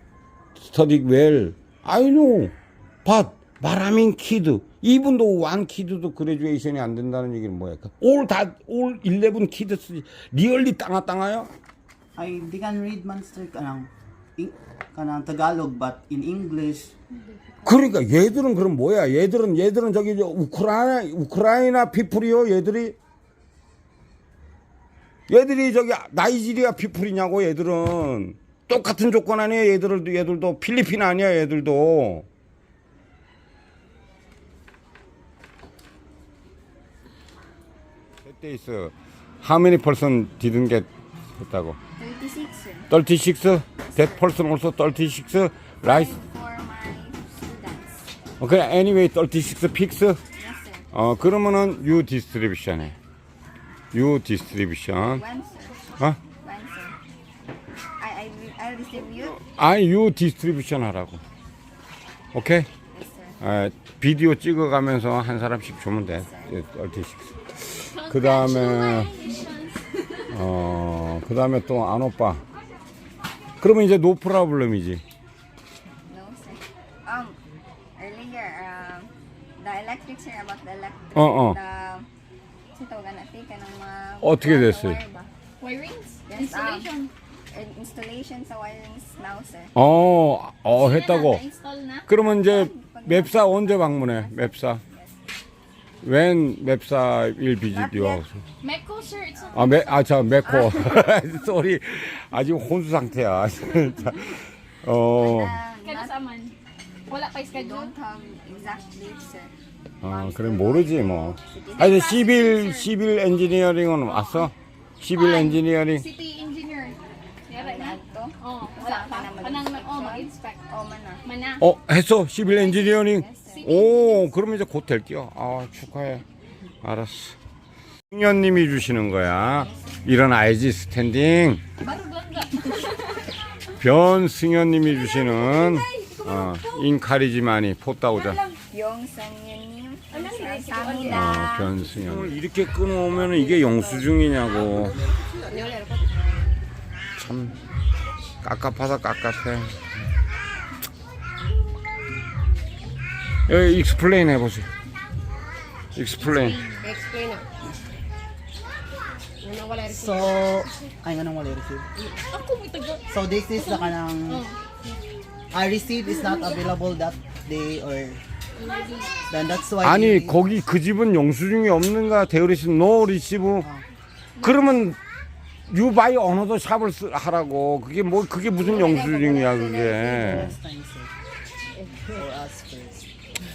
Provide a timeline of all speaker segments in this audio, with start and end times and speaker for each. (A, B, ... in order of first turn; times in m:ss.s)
0:00.6-0:11.5 A
0:12.1-0:16.9 B
0:17.1-0:17.8 C
0:17.6-0:23.0 A
0:25.3-0:32.3 A
0:38.2-0:41.8 A
0:42.0-0:42.9 D
0:42.9-0:46.2 A
0:43.8-0:44.3 D
0:45.8-0:48.1 D
0:48.4-0:50.2 A
0:50.3-0:50.9 D
0:50.9-0:53.0 A
0:53.9-0:55.2 A
0:55.1-0:57.0 D
0:58.0-0:59.4 D
0:59.3-1:01.2 A
1:02.3-1:02.7 A
1:02.9-1:03.4 D
1:03.4-1:09.1 A
1:06.1-1:06.5 D
1:07.8-1:10.3 C
1:10.3-1:12.4 A
1:13.6-1:15.0 A
1:16.1-1:17.4 D
1:18.0-1:22.1 D
1:21.1-1:21.6 A
1:22.7-1:25.3 D
1:24.2-1:25.0 A
1:25.6-1:27.1 C
1:26.3-1:26.9 D
1:27.5-1:29.7 D
1:29.7-1:31.4 A
1:30.7-1:32.1 C
1:32.1-1:34.8 A
1:32.1-1:35.2 D
1:36.0-1:38.4 A
1:37.7-1:38.2 D
1:38.6-1:40.1 C
1:39.5-1:45.6 A
1:40.4-1:41.1 D
1:45.1-1:46.1 D
1:45.8-1:46.6 C
1:47.1-1:47.9 C
1:47.5-1:52.4 D
1:50.0-1:56.1 A
1:51.8-1:52.9 C
1:54.0-1:54.5 C
1:55.1-2:00.6 C
1:57.5-2:01.3 D
2:01.2-2:01.6 C
2:01.6-2:06.2 A
2:02.4-2:03.7 D
2:03.3-2:04.3 C
2:06.8-2:07.4 A
2:08.1-2:11.6 A
2:11.8-2:13.3 C
2:13.8-2:18.4 A
2:15.1-2:16.8 C
2:18.1-2:18.6 C
2:18.7-2:21.8 D
2:20.1-2:21.6 C
2:21.0-2:25.0 A
2:25.3-2:26.2 E
2:27.2-2:27.6 A
2:28.4-2:29.9 A
2:33.5-2:34.7 A
2:35.9-2:36.6 A
2:36.2-2:37.0 C
2:36.8-2:37.4 E
2:39.4-2:40.3 E
2:39.8-2:41.9 B
2:42.1-2:44.9 C
2:43.1-2:44.4 B
2:45.5-2:48.2 B
2:48.6-2:49.2 C
2:49.2-2:50.5 B
2:49.8-2:53.7 A
2:53.6-2:53.8 B
2:54.4-2:54.6 C
2:54.4-2:55.0 A
2:55.7-3:00.6 A
2:58.6-3:00.4 D
3:00.1-3:01.1 B
3:01.9-3:03.1 B